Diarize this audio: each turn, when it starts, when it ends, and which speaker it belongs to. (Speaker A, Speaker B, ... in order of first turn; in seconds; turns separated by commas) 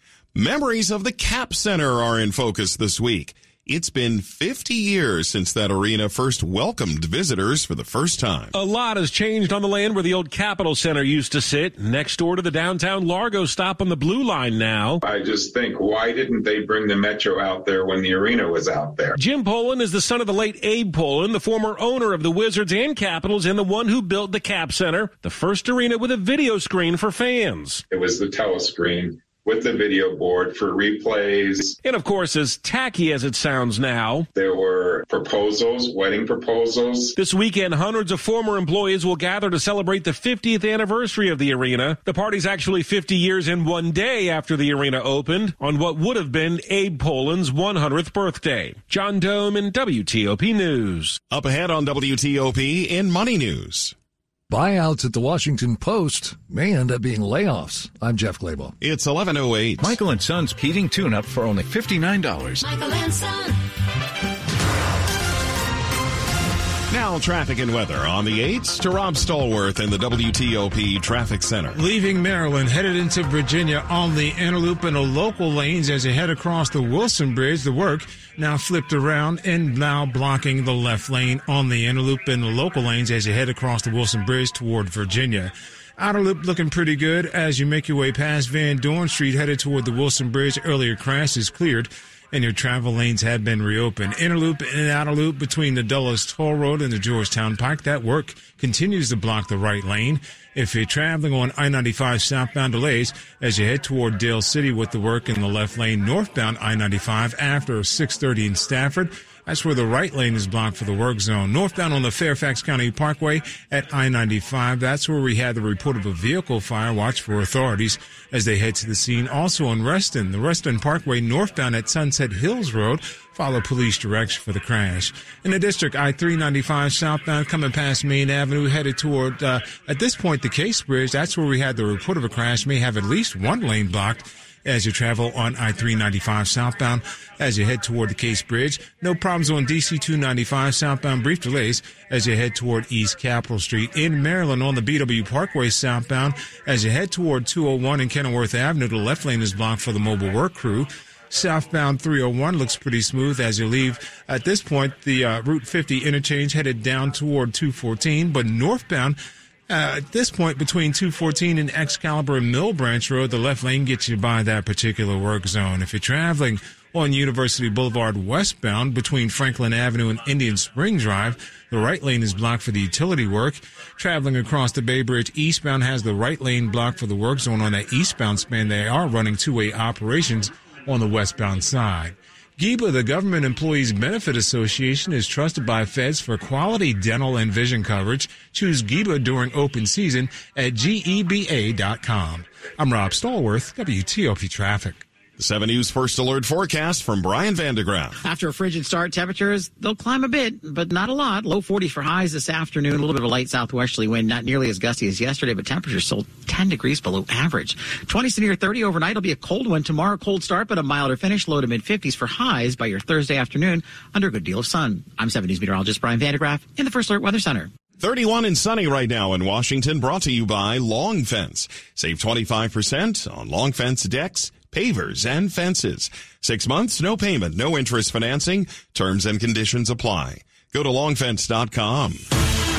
Speaker A: 0.3-8.5, Speaker B: 8.5-15.0, Speaker C: 15.0-19.1, Speaker B: 19.1-27.8, Speaker C: 27.9-31.8, Speaker B: 31.8-34.2, Speaker C: 34.3-37.1, Speaker B: 37.1-51.2, Speaker A: 51.3-53.9, Speaker D: 54.5-58.7, Speaker A: 58.8-60.0, Speaker E: 59.8-62.5, Speaker A: 66.9-71.8, Speaker F: 71.7-159.2, Speaker F: 159.7-195.0, Speaker A: 195.4-198.2, Speaker G: 198.2-217.7, Speaker A: 218.0-232.2